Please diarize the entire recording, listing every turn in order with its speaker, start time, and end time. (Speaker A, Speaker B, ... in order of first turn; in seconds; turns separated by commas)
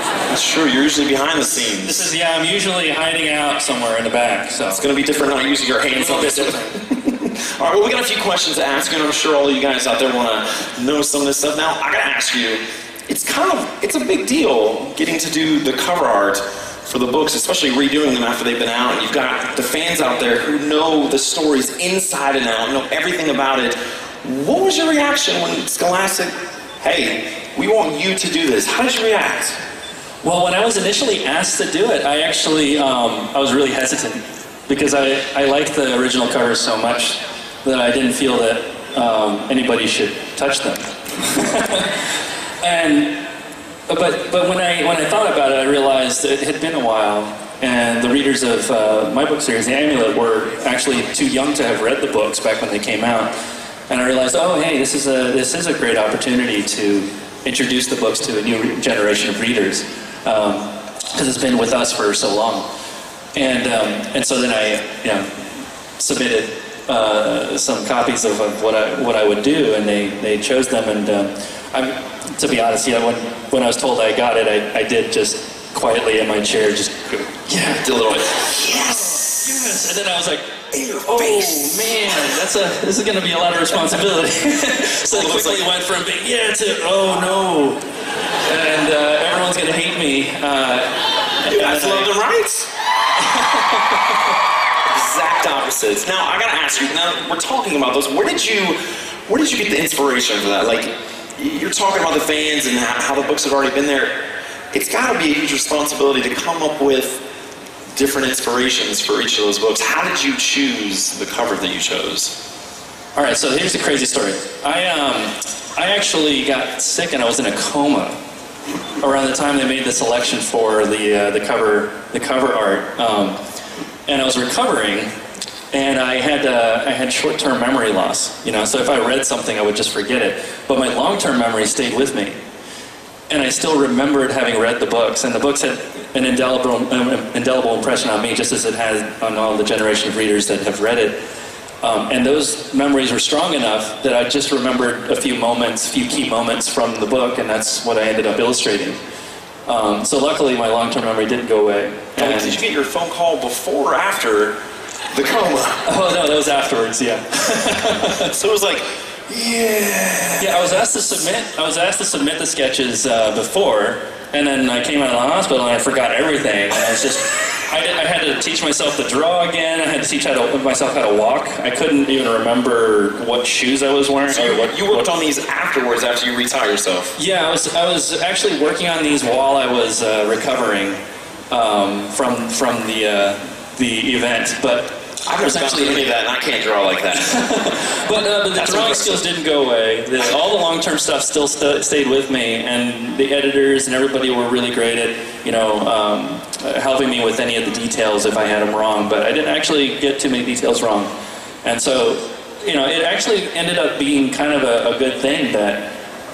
Speaker A: 0.3-2.1, Speaker B: 1.8-4.8, Speaker A: 4.7-29.6, Speaker B: 6.0-6.7, Speaker B: 30.2-42.0, Speaker B: 42.6-43.2, Speaker B: 43.9-53.3, Speaker B: 53.9-62.7, Speaker B: 63.4-65.3, Speaker B: 66.0-77.8, Speaker A: 77.5-79.7, Speaker B: 78.9-87.8, Speaker A: 80.9-81.8, Speaker A: 85.0-85.7, Speaker B: 88.5-92.1, Speaker A: 91.5-92.7, Speaker A: 94.9-104.2, Speaker A: 104.7-107.2, Speaker A: 108.0-112.3, Speaker B: 113.2-118.2, Speaker B: 119.0-123.4, Speaker B: 124.1-125.1, Speaker B: 125.7-132.4, Speaker B: 133.3-141.2, Speaker B: 141.8-149.0, Speaker B: 149.7-152.6, Speaker A: 152.2-154.6, Speaker A: 155.1-155.8, Speaker B: 155.9-158.3, Speaker A: 158.3-161.0, Speaker B: 160.4-175.1, Speaker A: 174.3-177.1, Speaker B: 177.2-181.0, Speaker B: 181.5-186.1, Speaker A: 185.3-187.4, Speaker B: 187.2-201.1, Speaker A: 188.6-189.2, Speaker B: 201.7-205.9